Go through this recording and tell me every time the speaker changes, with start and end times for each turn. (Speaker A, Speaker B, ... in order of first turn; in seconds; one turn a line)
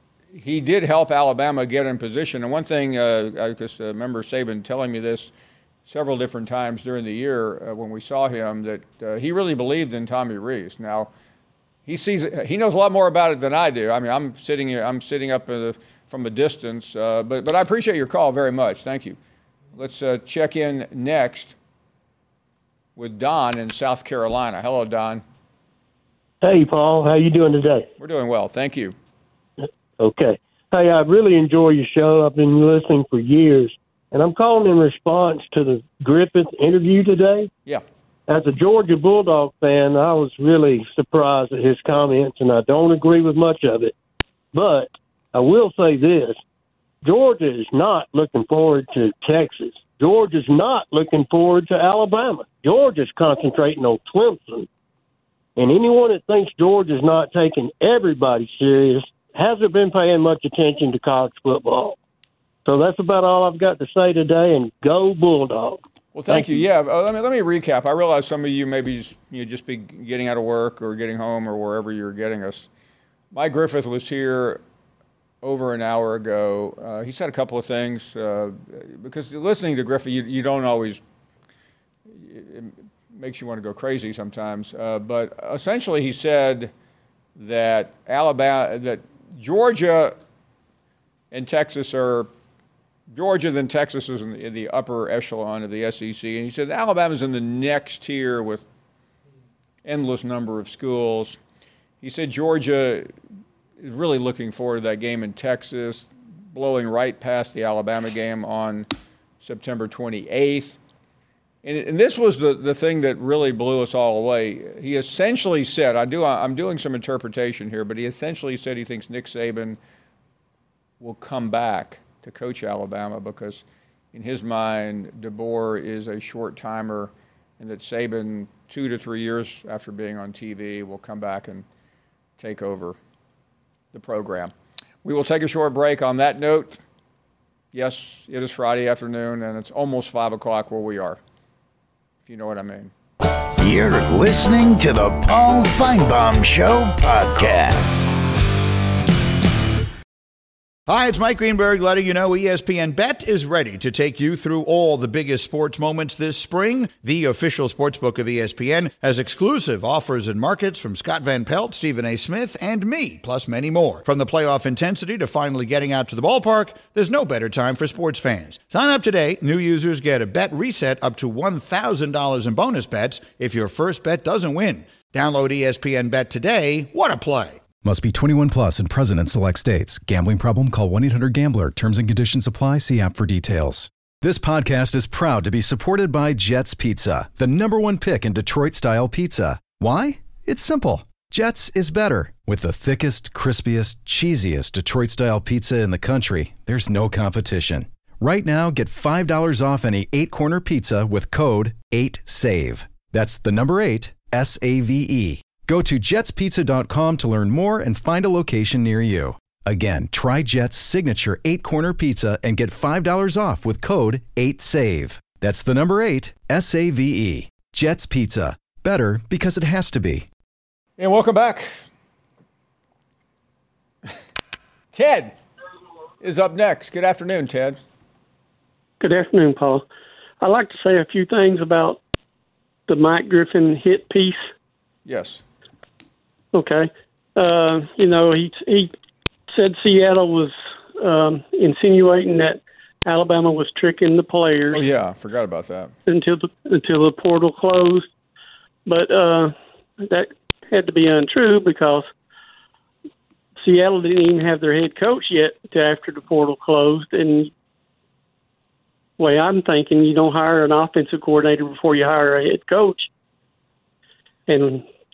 Speaker A: 0.3-5.3
Speaker A: 5.8-11.1
Speaker A: 11.8-19.2
Speaker A: 19.7-21.6
Speaker A: 22.9-25.2
Speaker B: 26.4-27.9
Speaker A: 28.0-28.9
Speaker B: 30.0-37.5
Speaker B: 38.3-43.9
Speaker B: 44.5-46.4
Speaker B: 47.0-54.7
Speaker B: 55.6-62.0
Speaker B: 62.6-66.5
Speaker A: 66.1-72.7
Speaker A: 73.3-74.6
Speaker A: 75.4-81.0
Speaker A: 82.1-86.7
Speaker A: 87.3-90.2
Speaker A: 91.3-92.3
Speaker A: 93.1-98.6
Speaker A: 99.8-101.4
Speaker A: 102.0-103.1
Speaker A: 103.8-108.9
Speaker A: 109.4-110.8
Speaker A: 111.6-119.8
Speaker A: 121.0-131.6
Speaker A: 132.4-133.0
Speaker A: 133.9-134.5
Speaker A: 135.0-136.8
Speaker A: 137.7-141.2
Speaker A: 142.2-142.9
Speaker C: 143.6-148.1
Speaker D: 150.9-177.6
Speaker E: 177.8-220.2
Speaker A: 221.0-221.8
Speaker A: 224.9-225.3
Speaker A: 226.2-227.8
Speaker F: 229.0-229.8
Speaker F: 230.4-232.0
Speaker F: 232.9-234.5
Speaker A: 235.1-235.4
Speaker F: 236.5-238.9
Speaker F: 239.5-244.8
Speaker A: 244.7-245.9
Speaker F: 246.1-248.1
Speaker F: 248.8-252.1
Speaker F: 253.6-257.5
Speaker F: 259.2-263.1
Speaker F: 264.5-264.8